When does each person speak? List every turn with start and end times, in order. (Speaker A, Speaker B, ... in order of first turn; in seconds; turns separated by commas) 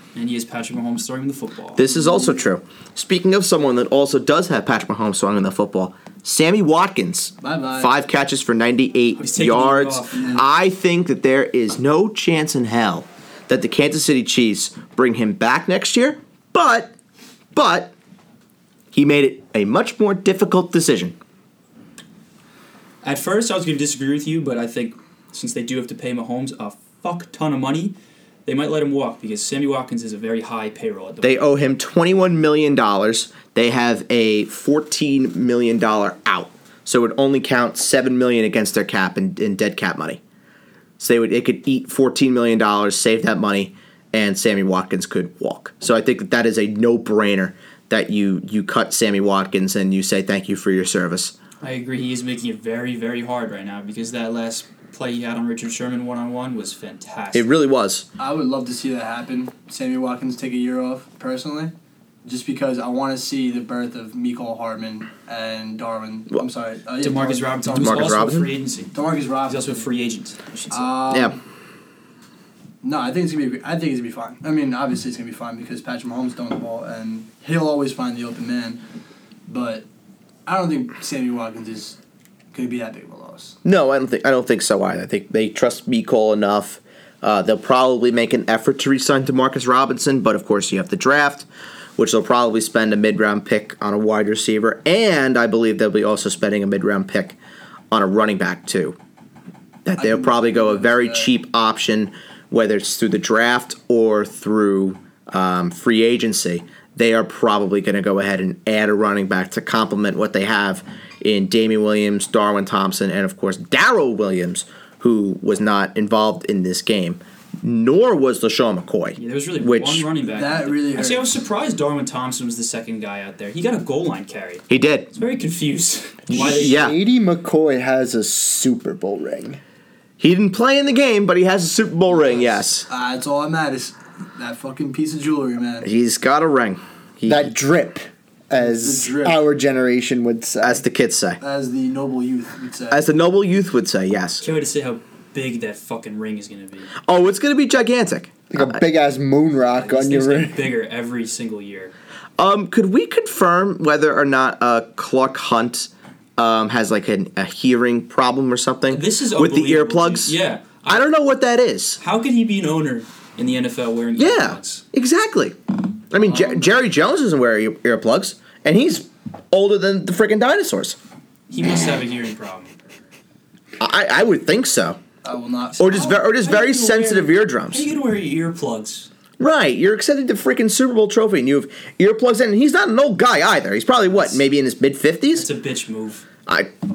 Speaker A: 0.1-1.9, Speaker B: 1.8-16.9, Speaker C: 7.4-7.9, Speaker A: 9.2-10.4, Speaker B: 17.5-17.9, Speaker B: 18.9-21.2, Speaker A: 23.0-27.9, Speaker A: 28.5-31.5, Speaker B: 31.2-40.2, Speaker B: 41.0-51.4, Speaker A: 51.6-57.5, Speaker B: 57.3-58.1, Speaker C: 58.2-61.7, Speaker C: 62.2-68.3, Speaker A: 67.0-71.0, Speaker B: 67.8-68.5, Speaker C: 68.9-69.8, Speaker C: 70.7-71.4, Speaker B: 71.1-71.4, Speaker C: 72.8-78.8, Speaker C: 79.5-79.8, Speaker C: 80.5-82.0, Speaker C: 82.5-83.6, Speaker B: 83.6-91.5, Speaker B: 92.0-97.4, Speaker B: 97.9-99.0, Speaker B: 99.8-120.1, Speaker C: 100.0-101.3, Speaker A: 119.2-126.9, Speaker C: 120.3-121.3, Speaker B: 124.7-125.1, Speaker B: 126.3-127.0, Speaker D: 126.3-129.6, Speaker B: 130.2-132.9, Speaker C: 132.1-135.9, Speaker B: 135.8-137.5, Speaker D: 137.3-140.8, Speaker C: 138.6-139.5, Speaker B: 140.6-141.4, Speaker C: 141.4-143.1, Speaker B: 142.9-144.4, Speaker A: 144.4-146.9, Speaker B: 147.1-148.8, Speaker D: 148.5-150.7, Speaker A: 149.7-151.9, Speaker B: 152.4-160.3, Speaker A: 158.9-161.1, Speaker B: 160.9-162.0, Speaker A: 162.0-164.8, Speaker B: 164.2-171.0, Speaker C: 166.2-166.7, Speaker A: 171.5-172.7, Speaker B: 173.8-175.0, Speaker C: 175.2-176.2, Speaker B: 175.8-177.9, Speaker A: 175.9-179.1, Speaker B: 179.4-185.5, Speaker A: 184.1-184.4, Speaker A: 185.3-186.2, Speaker B: 186.5-186.7